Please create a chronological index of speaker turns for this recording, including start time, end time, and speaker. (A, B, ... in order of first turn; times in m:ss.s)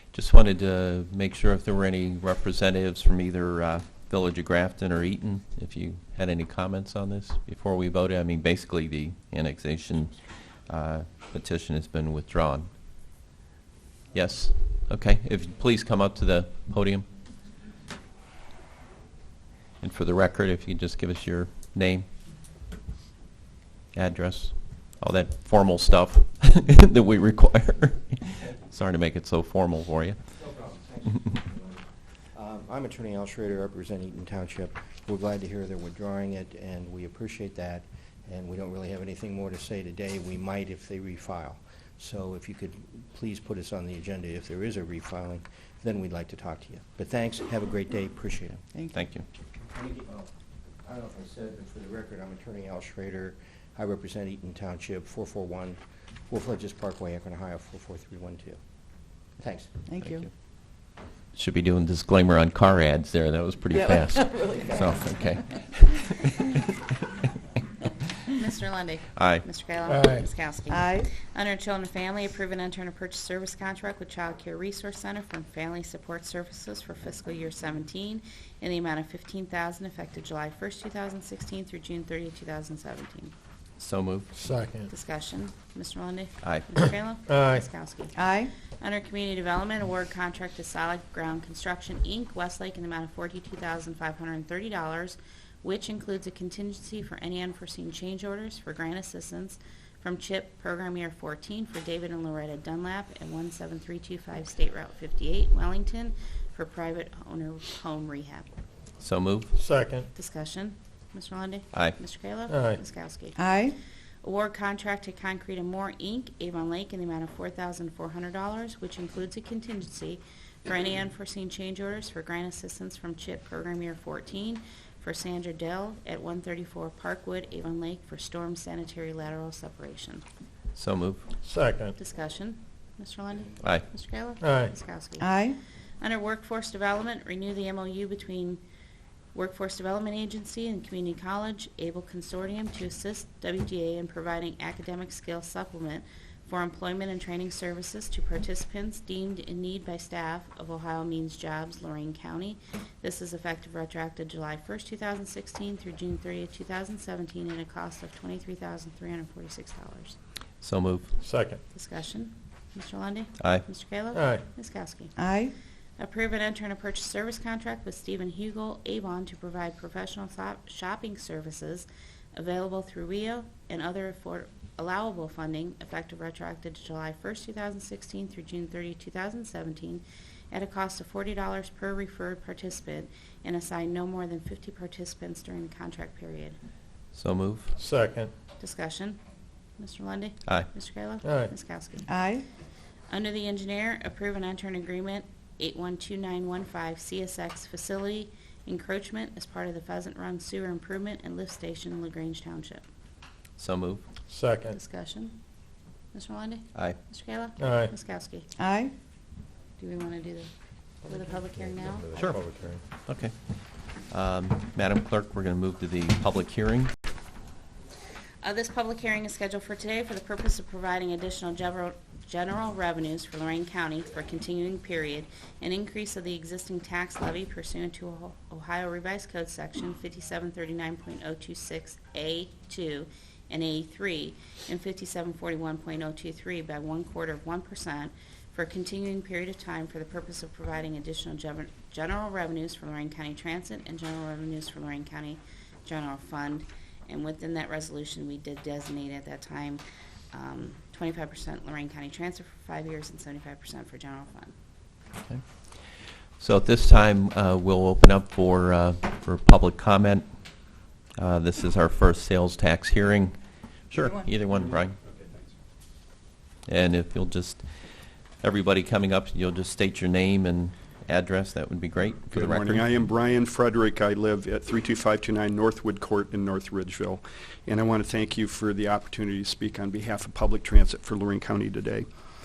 0:00.1-0:10.1 A
0:10.7-0:12.7 A
0:14.1-0:17.1 A
0:19.8-0:22.0 A
0:23.9-0:30.2 A
0:30.4-0:31.8 B
0:32.3-0:48.6 B
0:48.7-0:49.0 C
0:48.9-0:49.2 A
0:49.6-0:50.3 B
0:50.8-0:58.6 B
0:59.3-0:59.8 B
0:59.9-1:00.3 C
1:00.0-1:00.3 A
1:01.3-1:06.5 A
1:03.7-1:04.8 C
1:08.3-1:23.3 D
1:09.1-1:09.5 A
1:09.9-1:10.3 E
1:10.7-1:11.1 C
1:23.8-1:24.3 A
1:24.3-1:24.9 E
1:24.9-1:48.5 D
1:26.4-1:26.9 A
1:27.3-1:27.6 E
1:28.1-1:28.5 C
1:49.0-1:49.5 A
1:49.5-1:50.1 E
1:50.1-1:53.5 D
1:51.7-1:52.0 A
1:52.5-1:52.8 E
1:53.4-1:53.7 C
1:54.2-2:10.2 D
2:10.8-2:11.2 A
2:11.4-2:11.9 E
2:12.0-2:15.4 D
2:14.4-2:14.7 E
2:15.2-2:15.6 C
2:16.0-2:18.6 D
2:19.3-2:40.2 D
2:40.6-2:41.1 A
2:41.2-2:41.6 E
2:41.7-2:45.2 D
2:43.4-2:43.7 A
2:44.1-2:44.4 E
2:45.2-2:45.5 C
2:46.0-3:06.6 D
3:07.1-3:07.7 A
3:07.8-3:08.3 E
3:08.6-3:09.2 D
3:09.8-3:12.1 D
3:11.2-3:11.5 E
3:12.0-3:12.4 C
3:13.1-3:22.8 D
3:23.6-3:24.0 A
3:24.3-3:24.8 E
3:24.7-3:25.4 D
3:26.1-3:28.5 D
3:27.6-3:27.9 E
3:28.6-3:28.9 C
3:29.8-3:30.5 D
3:31.0-3:32.3 D
3:31.1-3:32.8 E
3:33.0-3:36.9 A
3:38.4-4:14.5 D
4:16.4-4:20.3 A
4:21.2-4:25.0 A
4:26.7-4:32.8 A
4:32.3-4:42.0 F